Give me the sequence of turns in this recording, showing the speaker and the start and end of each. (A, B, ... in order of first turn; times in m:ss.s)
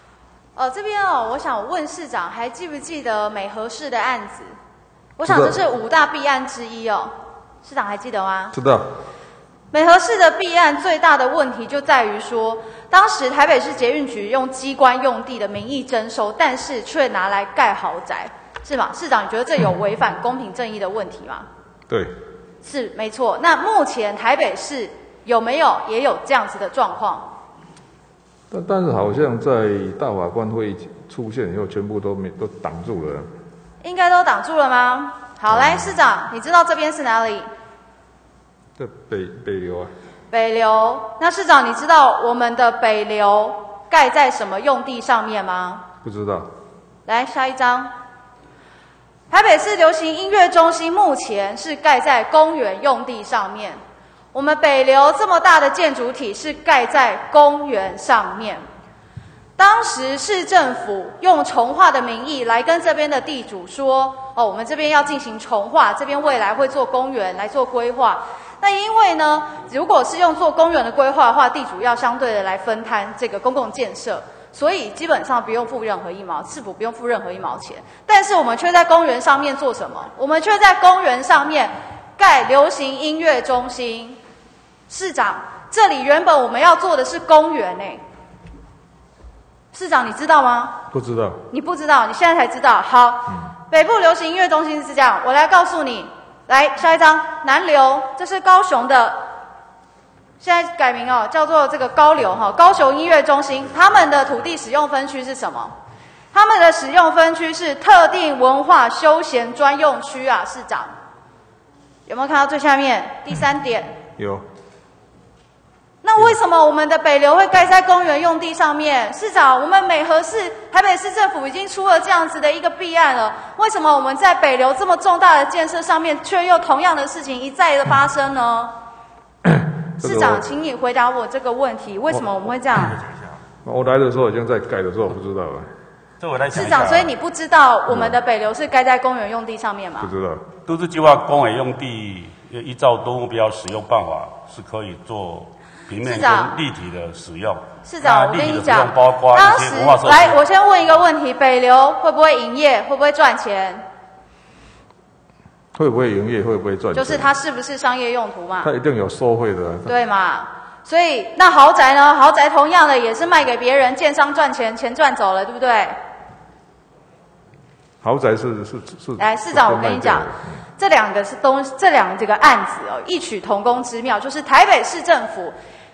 0:00.6-0:04.5 A
0:05.2-0:07.1 A
0:05.2-0:05.6 B
0:07.6-0:08.6 A
0:08.5-0:08.9 B
0:09.7-0:21.5 A
0:22.6-0:27.3 A
0:28.5-0:33.3 B
0:33.8-0:37.5 A
0:35.5-0:36.0 B
0:38.8-0:39.9 B
0:40.3-0:45.9 A
0:46.0-0:46.5 B
0:47.1-0:47.9 A
0:49.3-0:53.8 A
0:54.3-0:58.6 A
0:59.6-1:24.2 A
1:24.9-1:28.0 A
1:29.7-1:30.8 A
1:30.9-1:31.4 B
1:31.5-1:39.3 A
1:40.4-1:45.7 A
1:46.3-1:50.9 A
1:52.1-1:54.0 A
1:54.2-1:54.4 B
1:56.0-2:08.7 A
2:09.4-2:10.4 B
2:10.0-2:13.0 A
2:13.6-2:15.7 B
2:16.2-2:17.1 C
2:16.5-2:20.1 A
2:17.9-2:18.2 B
2:20.0-2:20.5 B
2:20.6-2:30.4 C
2:26.0-2:26.6 A
2:27.8-2:33.8 A
2:35.8-2:37.3 B
2:36.9-2:38.7 A
2:38.6-2:39.9 B
2:39.9-2:46.0 A
2:48.0-2:50.4 B
2:49.2-2:55.5 A